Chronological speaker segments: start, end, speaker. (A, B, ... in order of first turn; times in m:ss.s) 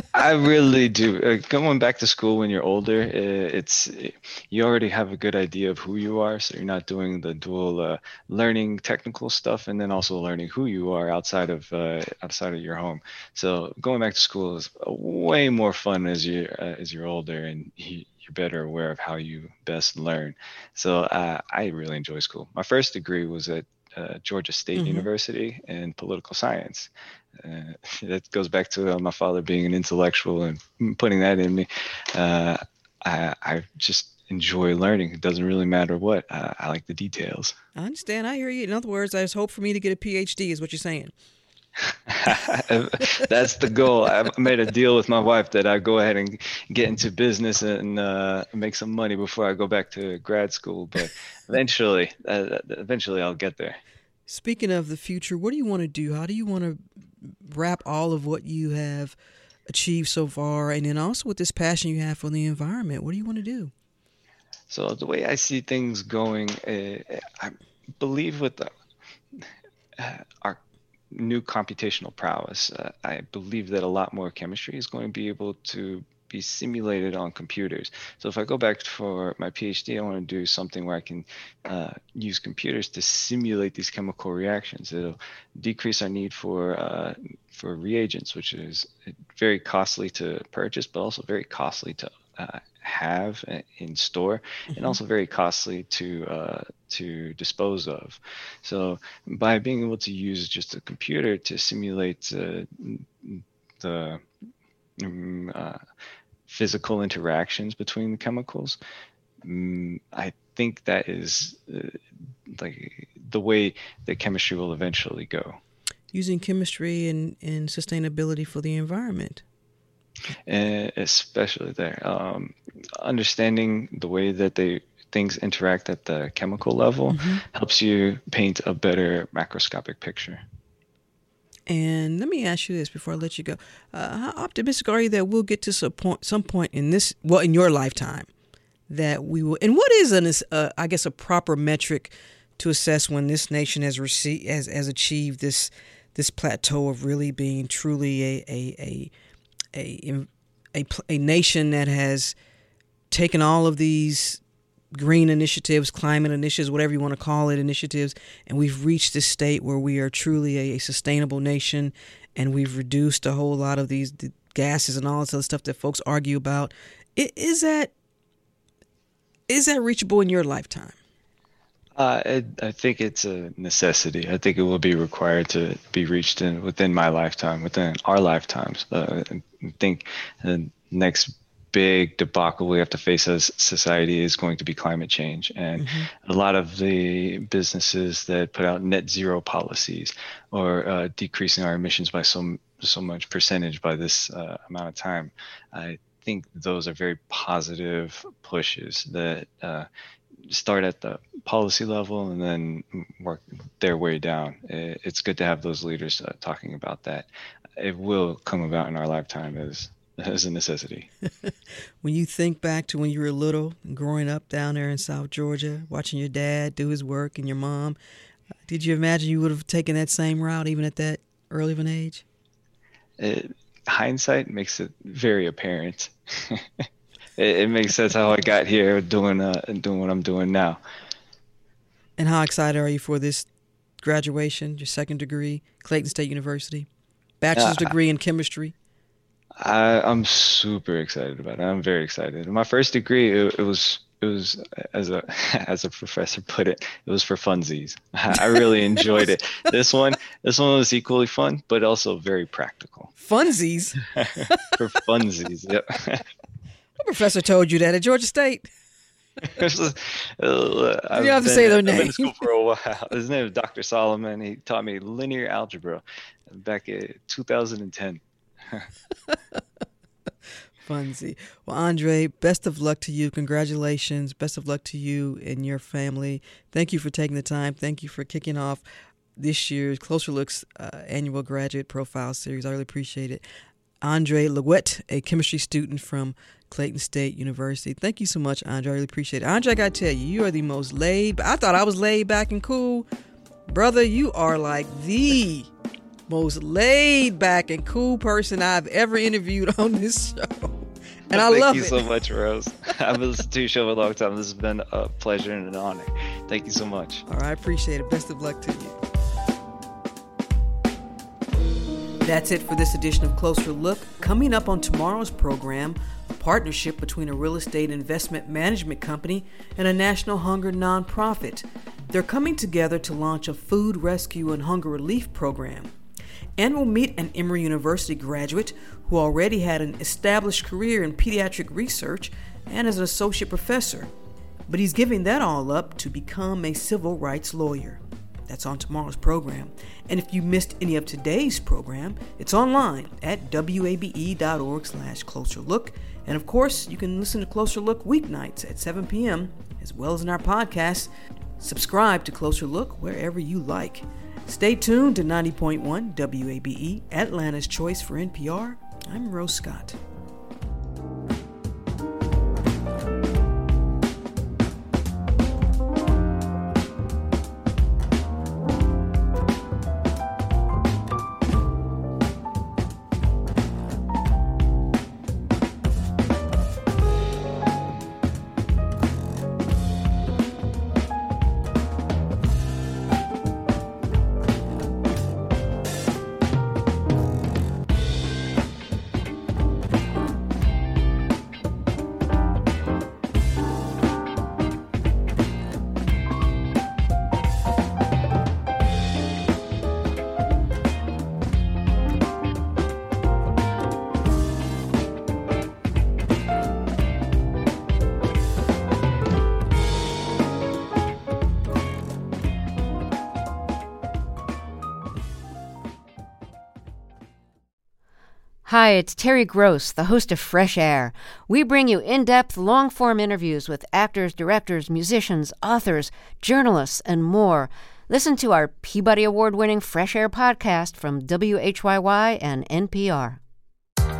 0:00.1-0:37.6 A
0:24.8-0:25.1 B
0:37.8-0:41.1 B
0:42.1-0:53.8 A
0:54.3-0:56.8 B
0:57.3-0:59.2 B
0:59.7-1:03.7 B
1:04.7-1:08.7 A
1:10.0-1:10.6 A
1:11.1-1:44.2 A
1:45.0-1:45.8 A
1:46.5-1:48.8 A
1:49.4-1:55.6 A
1:56.1-1:59.4 B
2:00.5-2:10.4 A
2:07.1-2:07.4 B
2:11.7-2:18.3 B
2:18.9-2:29.1 B
2:29.7-2:32.4 B
2:33.1-2:34.4 B
2:34.9-2:47.9 B
2:49.5-2:50.9 B
2:52.0-3:19.9 A
3:05.8-3:06.1 B
3:20.5-3:31.1 A
3:32.0-3:38.0 B
3:38.6-3:42.2 B
3:43.2-3:46.6 A
3:47.4-3:50.8 A
3:52.2-3:53.5 B
3:54.0-3:56.9 B
3:57.4-3:58.7 B
3:57.5-3:57.9 A
3:59.6-4:13.1 A
4:08.4-4:09.3 B
4:13.2-4:14.8 B
4:14.2-4:16.2 A
4:17.0-4:18.7 B
4:19.5-4:28.9 A
4:21.1-4:22.4 B
4:30.8-4:38.8 B
4:39.4-4:43.4 B
4:44.0-4:53.1 B
4:53.7-4:55.7 B
4:56.3-5:02.0 B
5:01.3-5:07.2 A
5:07.3-5:09.0 B
5:12.2-5:25.9 B
5:26.6-5:34.1 B
5:34.7-6:00.0 B
6:58.6-7:13.4 C